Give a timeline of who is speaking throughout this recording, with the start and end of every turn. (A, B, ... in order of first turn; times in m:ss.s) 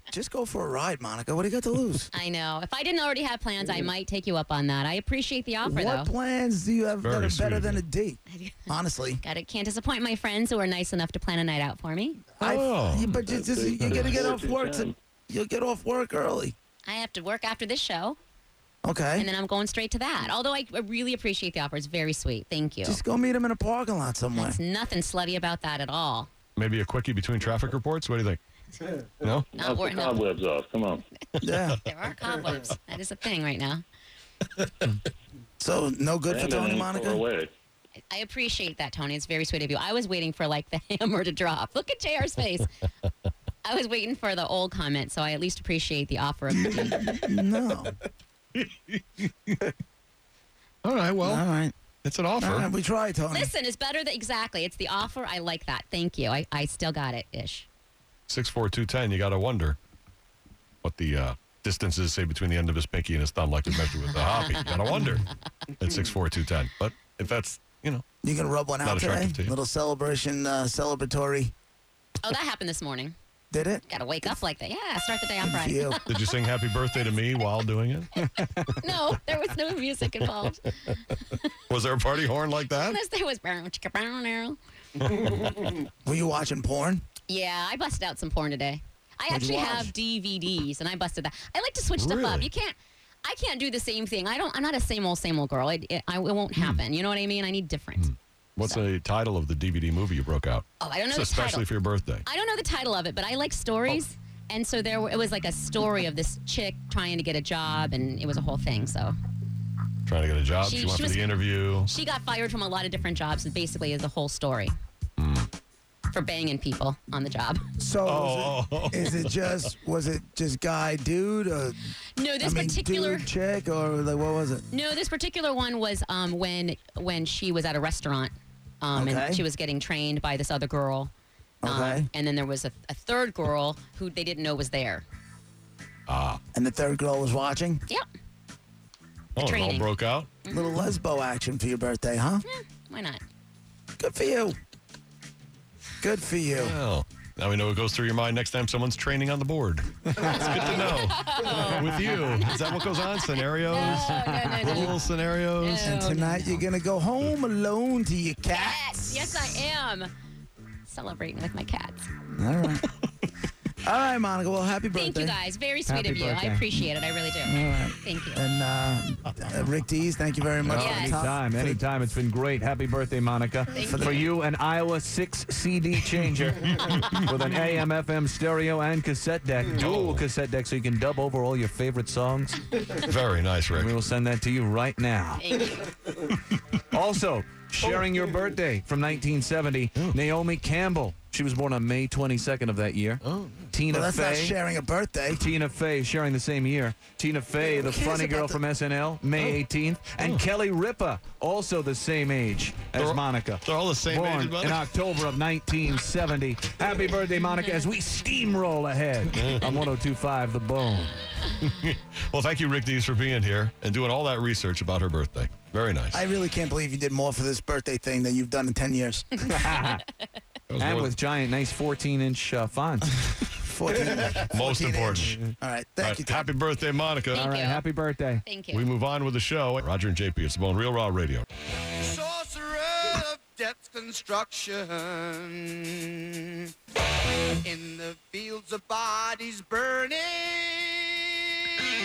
0:00.1-0:02.1 A
0:02.1-0:06.1 B
0:05.6-0:09.2 A
0:07.0-0:07.8 C
0:08.3-0:08.7 B
0:09.2-0:12.3 B
0:12.4-0:16.6 A
0:12.4-0:13.3 C
0:13.2-0:15.0 D
0:16.9-0:18.2 B
0:18.8-0:19.3 A
0:19.2-0:23.0 B
0:22.8-0:24.6 A
0:24.4-0:26.3 B
0:26.6-0:28.4 C
0:29.5-0:31.0 D
0:29.6-0:30.2 B
0:31.4-0:31.8 A
0:31.8-0:33.8 B
0:35.6-0:37.2 A
0:36.3-0:37.5 D
0:38.1-0:42.7 B
0:43.6-0:47.2 B
0:46.9-0:47.9 A
0:48.6-0:49.7 C
0:50.8-0:51.4 C
0:51.2-0:51.7 A
0:52.0-0:52.7 C
0:52.4-0:53.5 A
0:53.3-0:57.7 B
0:58.3-0:59.8 C
1:00.8-1:05.3 C
1:04.1-1:05.0 B
1:05.8-1:08.1 C
1:08.2-1:11.5 A
1:08.8-1:09.5 C
1:12.2-1:13.2 B
1:13.5-1:14.4 A
1:13.9-1:16.3 B
1:15.4-1:16.0 A
1:16.1-1:18.1 C
1:18.2-1:18.8 E
1:18.8-1:21.5 B
1:21.7-1:23.0 C
1:22.7-1:24.6 B
1:25.0-1:25.5 C
1:26.0-1:27.0 A
1:27.3-1:38.1 B
1:29.3-1:29.9 A
1:32.0-1:32.5 C
1:38.0-1:42.2 C
1:40.8-1:41.7 B
1:42.3-1:49.2 B
1:50.1-1:51.9 C
1:50.6-1:51.3 B
1:51.9-1:54.7 B
1:55.2-1:55.5 C
1:56.1-1:57.6 B
1:57.8-2:01.8 A
1:58.1-1:59.3 C
2:02.2-2:03.3 B
2:02.4-2:04.6 A
2:04.7-2:11.1 B
2:08.9-2:09.4 A
2:11.6-2:12.1 A
2:11.6-2:15.0 B
2:16.1-2:16.4 C
2:16.5-2:17.8 A
2:19.4-2:20.3 C
2:19.4-2:19.9 B
2:20.4-2:20.9 B
2:20.5-2:22.4 A
2:22.5-2:23.2 B
2:24.0-2:24.6 A
2:26.0-2:26.8 A
2:26.6-2:36.0 C
2:30.2-2:30.8 E
2:30.4-2:36.6 B
2:33.8-2:34.9 E
2:35.8-2:39.4 A
2:38.5-2:40.1 B
2:40.9-2:42.0 B
2:42.4-2:42.9 A
2:43.8-2:45.4 A
2:45.0-2:48.4 B
2:45.9-2:46.6 E
2:47.4-2:51.8 A
2:50.7-3:02.6 E
2:50.8-2:51.2 B
2:53.7-2:54.2 B
2:53.8-2:54.3 A
2:59.7-3:00.2 C
3:02.9-3:04.0 C
3:03.7-3:05.4 E
3:05.4-3:05.9 B
3:06.9-3:14.6 E
3:07.8-3:08.1 C
3:13.2-3:13.7 C
3:13.9-3:15.4 A
3:15.3-3:31.2 E
3:17.7-3:18.6 A
3:19.4-3:19.6 C
3:22.9-3:24.9 C
3:29.3-3:29.7 C
3:31.6-3:36.2 C
3:36.1-3:39.3 A
3:39.5-3:40.0 E
3:39.6-3:40.0 B
3:40.7-3:41.2 C
3:40.8-3:43.1 E
3:43.2-3:46.5 A
3:44.4-3:45.4 C
3:46.0-3:47.4 C
3:47.3-3:47.8 B
3:47.3-3:48.4 E
3:48.5-3:48.9 B
3:48.7-3:51.4 C
3:52.0-3:56.7 F
3:57.6-4:01.5 F